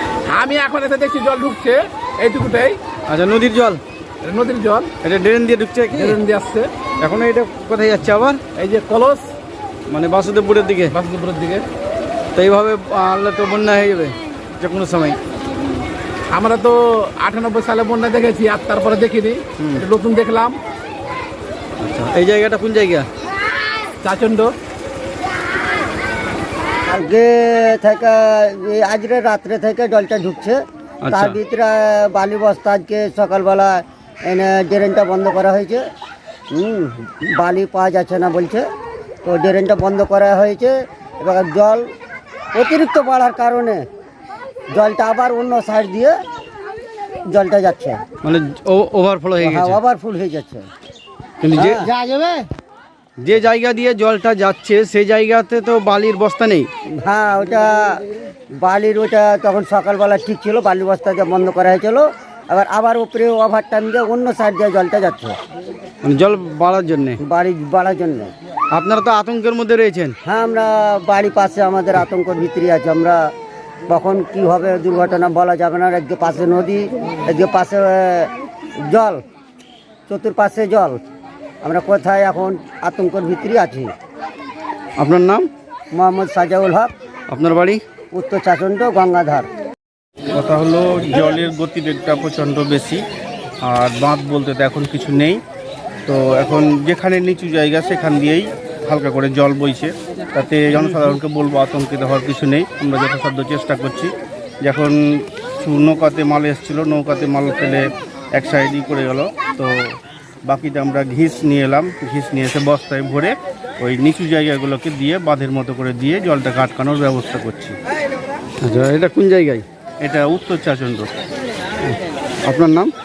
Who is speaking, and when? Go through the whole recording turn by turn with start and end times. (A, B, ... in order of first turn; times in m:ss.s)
0:00.3-0:02.8 A
0:03.1-0:03.8 B
0:04.2-0:04.9 A
0:05.0-0:06.2 B
0:06.0-0:06.7 A
0:07.0-0:08.4 B
0:08.6-0:09.2 A
0:09.9-0:10.9 B
0:10.9-0:11.6 A
0:12.4-0:15.2 B
0:16.3-0:20.6 A
0:21.8-0:23.1 B
0:24.0-0:24.6 A
0:26.9-0:30.6 C
0:31.0-0:31.4 B
0:31.1-0:35.8 C
0:36.5-0:38.6 C
0:39.2-0:41.9 C
0:42.5-0:43.8 C
0:44.7-0:46.2 C
0:47.3-0:48.0 C
0:48.2-0:49.8 B
0:49.4-0:50.7 C
0:51.4-0:51.8 B
0:51.6-0:52.3 C
0:53.2-0:56.7 B
0:57.0-0:57.9 C
0:58.6-1:05.4 C
1:06.0-1:07.2 B
1:07.2-1:08.3 C
1:08.7-1:10.2 B
1:10.2-1:13.2 C
1:13.9-1:18.3 C
1:18.9-1:19.2 C
1:20.1-1:21.0 C
1:21.6-1:23.9 C
1:25.0-1:25.5 B
1:25.9-1:26.9 C
1:27.3-1:27.8 B
1:28.1-1:29.5 C
1:30.3-1:33.0 D
1:33.6-1:35.4 D
1:36.1-1:57.8 D
1:58.6-1:59.6 B
2:00.0-2:01.1 D
2:01.8-2:02.9 B